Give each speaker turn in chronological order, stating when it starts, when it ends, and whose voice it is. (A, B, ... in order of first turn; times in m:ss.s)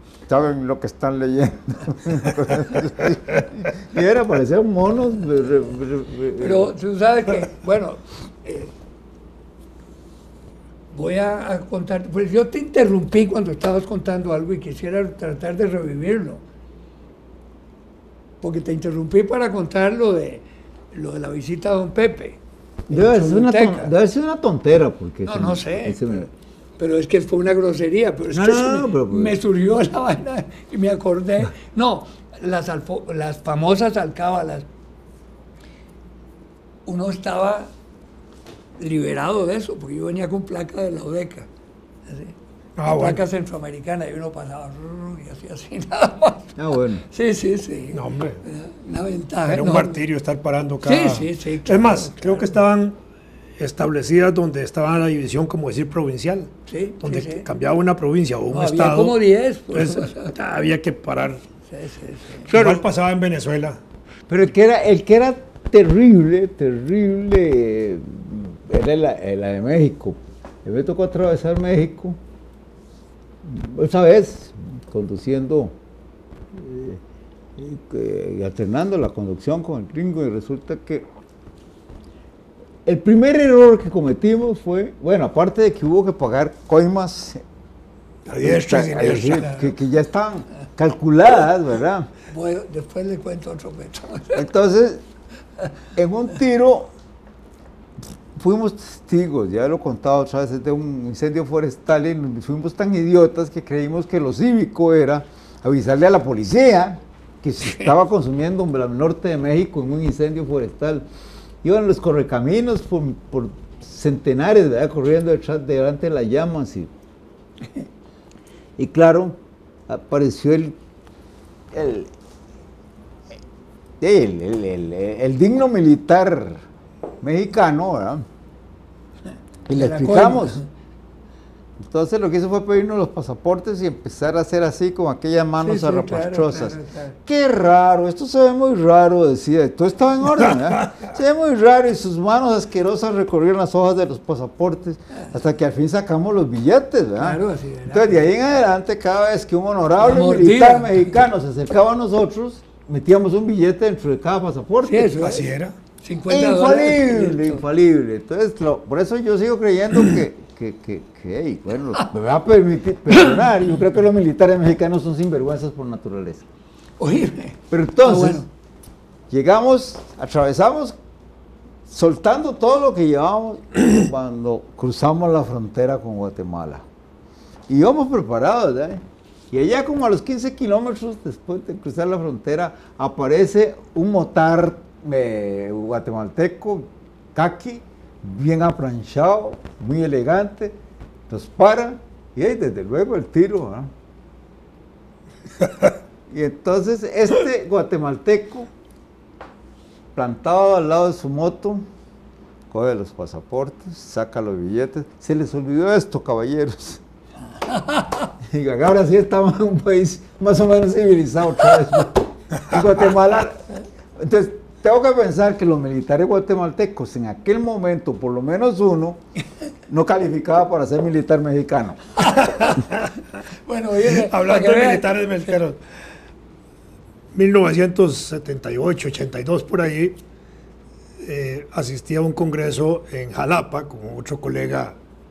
0:00.3-0:06.7 A
0:06.4-0:08.7 B
0:10.9-0:16.4 B
0:18.4-0:23.9 B
0:22.9-0:26.3 A
0:25.2-0:34.7 B
0:28.3-0:29.4 A
0:36.8-0:37.7 B
0:38.8-0:41.5 B
0:42.1-0:42.3 B
0:42.8-0:43.2 C
0:42.9-0:50.0 B
0:46.6-0:47.0 A
0:47.9-0:48.4 C
0:49.5-0:53.0 C
0:50.8-0:52.6 B
0:53.6-0:59.2 C
0:56.7-0:57.5 B
0:58.5-1:00.3 B
0:59.7-1:01.4 C
1:01.7-1:02.8 B
1:02.5-1:03.8 C
1:04.3-1:12.2 A
1:13.4-1:15.8 A
1:16.5-1:17.0 A
1:17.6-1:21.1 A
1:22.8-1:27.4 A
1:28.3-1:29.6 C
1:28.4-1:32.1 A
1:32.3-1:34.5 B
1:34.3-1:35.0 A
1:35.9-1:36.9 A
1:38.3-1:51.0 A
1:51.6-1:56.9 A
1:58.8-2:00.8 A
2:01.7-2:02.1 A
2:04.0-2:06.6 A
2:07.2-2:08.2 A
2:09.7-2:10.6 A
2:09.7-2:10.6 B
2:11.8-2:35.2 A
2:15.6-2:17.2 B
2:27.2-2:28.3 B
2:30.0-2:31.2 B
2:34.8-2:35.5 B
2:35.2-2:35.7 C
2:36.0-2:37.6 B
2:36.3-2:46.4 A
2:47.0-2:48.5 B
2:47.7-2:48.4 A
2:49.3-2:51.0 A
2:51.9-2:56.8 A
2:57.7-3:10.8 A
3:11.3-3:13.9 A
3:16.3-3:18.7 A
3:20.1-3:21.8 A
3:22.7-3:27.0 A
3:27.6-3:28.3 B
3:28.4-3:39.2 A
3:39.9-3:42.0 A
3:42.2-3:42.9 B
3:42.4-3:43.1 C
3:43.6-3:45.5 B
3:44.1-3:45.8 C
3:47.3-3:50.2 C
3:51.2-3:55.0 C